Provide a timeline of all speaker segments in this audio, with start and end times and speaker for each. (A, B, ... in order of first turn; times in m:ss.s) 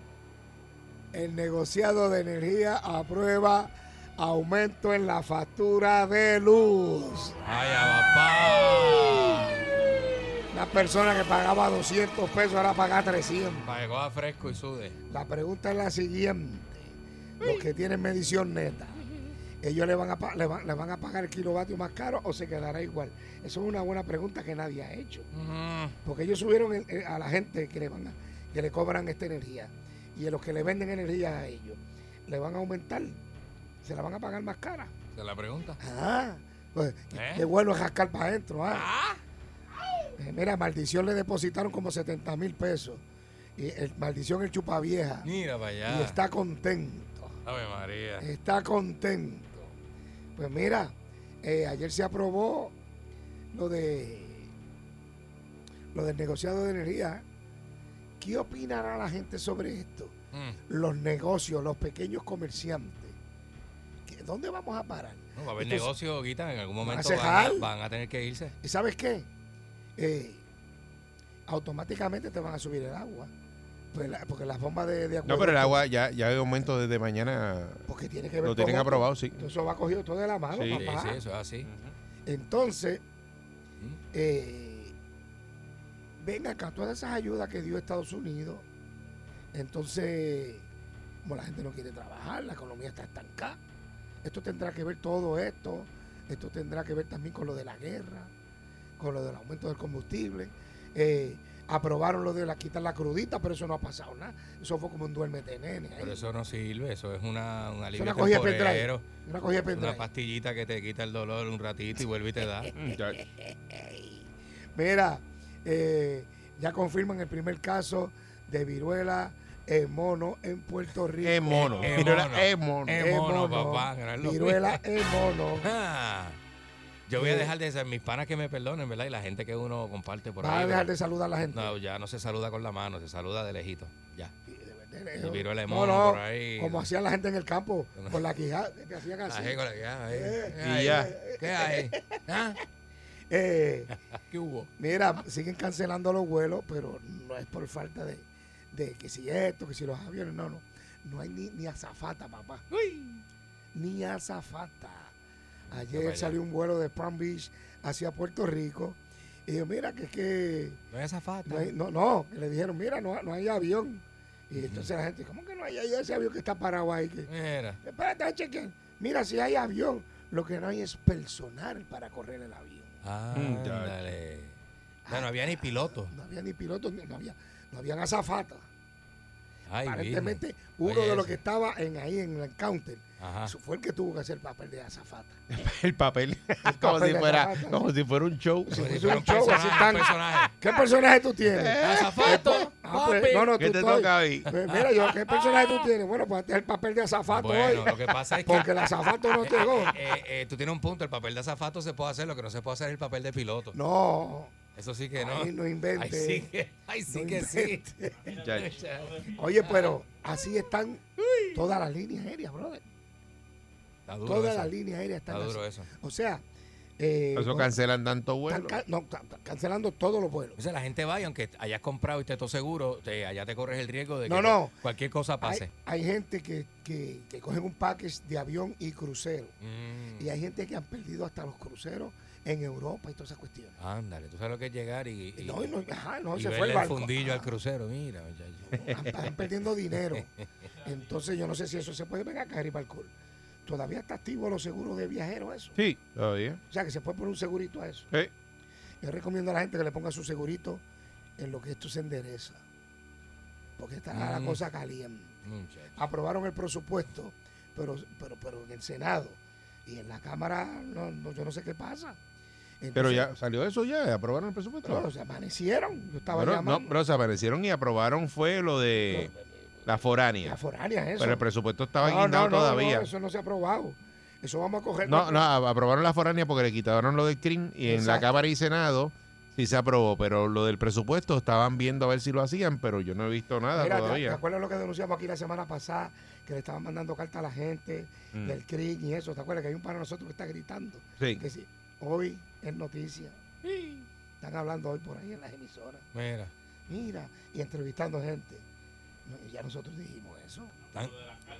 0:01.1-0:07.4 A
0:07.4-0:09.6 B
0:10.5-0:13.7 A
0:13.6-0:15.0 B
0:15.1-0:19.1 A
0:19.6-0:25.3 A
0:25.3-0:26.0 B
0:26.0-0:33.2 A
0:33.8-0:34.9 A
0:35.1-0:35.8 B
0:35.8-0:38.9 A
0:37.1-0:37.5 B
0:38.7-0:39.2 B
0:40.2-0:43.0 A
0:43.6-0:45.3 A
0:45.2-0:46.2 B
0:45.8-0:47.4 A
0:47.4-0:48.3 B
0:48.2-0:49.7 A
0:50.4-0:52.7 A
0:53.5-0:54.5 A
0:55.9-0:57.2 A
0:58.2-1:00.2 A
1:00.3-1:00.6 B
1:00.7-1:03.2 A
1:04.0-1:05.9 A
1:05.4-1:08.5 B
1:06.8-1:07.7 A
1:08.6-1:09.3 A
1:10.0-1:10.4 A
1:11.5-1:13.3 A
1:13.9-1:15.8 A
1:15.2-1:17.9 C
1:17.9-1:21.2 A
1:18.4-1:19.4 C
1:20.5-1:20.9 C
1:20.7-1:21.7 B
1:21.6-1:21.9 C
1:22.2-1:23.0 A
1:24.1-1:24.9 A
1:26.2-1:28.6 A
1:29.5-1:30.7 A
1:31.2-1:33.6 A
1:34.2-1:38.3 A
1:39.0-1:46.2 A
1:46.0-1:49.0 B
1:47.9-1:50.0 A
1:49.6-1:52.7 B
1:52.7-1:53.2 C
1:53.2-1:54.2 A
1:54.7-2:02.0 A
2:01.2-2:03.0 C
2:01.6-2:04.8 B
2:02.9-2:05.7 A
2:05.6-2:06.4 B
2:07.1-2:10.9 B
2:07.2-2:07.5 A
2:10.4-2:11.8 A
2:11.5-2:14.3 B
2:14.5-2:22.2 A
2:15.2-2:16.9 B
2:18.0-2:18.2 B
2:19.2-2:22.6 B
2:20.6-2:21.1 C
2:23.3-2:23.9 A
2:23.9-2:24.7 B
2:24.8-2:32.6 A
2:32.7-2:33.2 B
2:33.7-2:35.1 A
2:35.7-2:40.8 A
2:35.9-2:36.4 B
2:40.9-2:41.7 B
2:41.4-2:47.3 A
2:44.6-2:44.9 B
2:47.3-2:47.8 B
2:47.8-2:53.0 A
2:53.0-2:54.6 B
2:53.3-2:54.0 C
2:55.1-2:58.6 A
2:55.1-2:56.1 B
2:59.7-3:01.4 B
2:59.8-3:05.4 A
3:03.2-3:03.5 B
3:05.5-3:08.8 C
3:06.6-3:07.9 A
3:08.6-3:20.0 A
3:08.7-3:10.6 B
3:11.5-3:14.5 C
3:11.8-3:13.5 B
3:14.6-3:15.0 B
3:17.3-3:23.8 B
3:23.7-3:24.5 A
3:24.8-3:30.0 B
3:25.2-3:26.5 A
3:27.1-3:28.3 A
3:28.3-3:28.7 C
3:29.3-3:32.8 A
3:31.2-3:31.7 B
3:34.0-3:34.8 B
3:34.2-3:36.4 A
3:35.3-3:35.9 B
3:37.0-3:37.8 A
3:37.4-3:38.8 C
3:38.5-3:40.6 A
3:40.6-3:45.7 B
3:44.2-3:44.7 A
3:45.4-3:49.5 A
3:49.6-3:50.3 B
3:50.2-3:53.8 A
3:53.8-3:55.7 B
3:55.4-3:57.5 A
3:56.3-3:58.8 B
3:58.6-4:00.3 A
4:00.8-4:03.1 A
4:03.6-4:05.8 A
4:05.8-4:06.6 C
4:06.7-4:08.1 A
4:09.0-4:10.8 A
4:11.4-4:12.6 A
4:13.8-4:15.3 A
4:14.1-4:14.6 B
4:15.4-4:16.0 B
4:15.9-4:22.2 A
4:22.8-4:23.3 A
4:22.9-4:25.0 C
4:24.8-4:26.9 A
4:26.3-4:29.3 C
4:29.1-4:29.5 A
4:29.8-4:30.6 C
4:30.4-4:31.4 A
4:31.2-4:33.1 C
4:32.0-4:35.5 A
4:35.0-4:44.4 C
4:37.8-4:38.4 A
4:43.7-4:53.6 A
4:48.3-4:48.6 C
4:54.4-4:56.0 A
4:56.1-4:56.5 B
4:56.9-4:58.6 A
4:59.2-5:00.7 A
5:00.9-5:01.3 B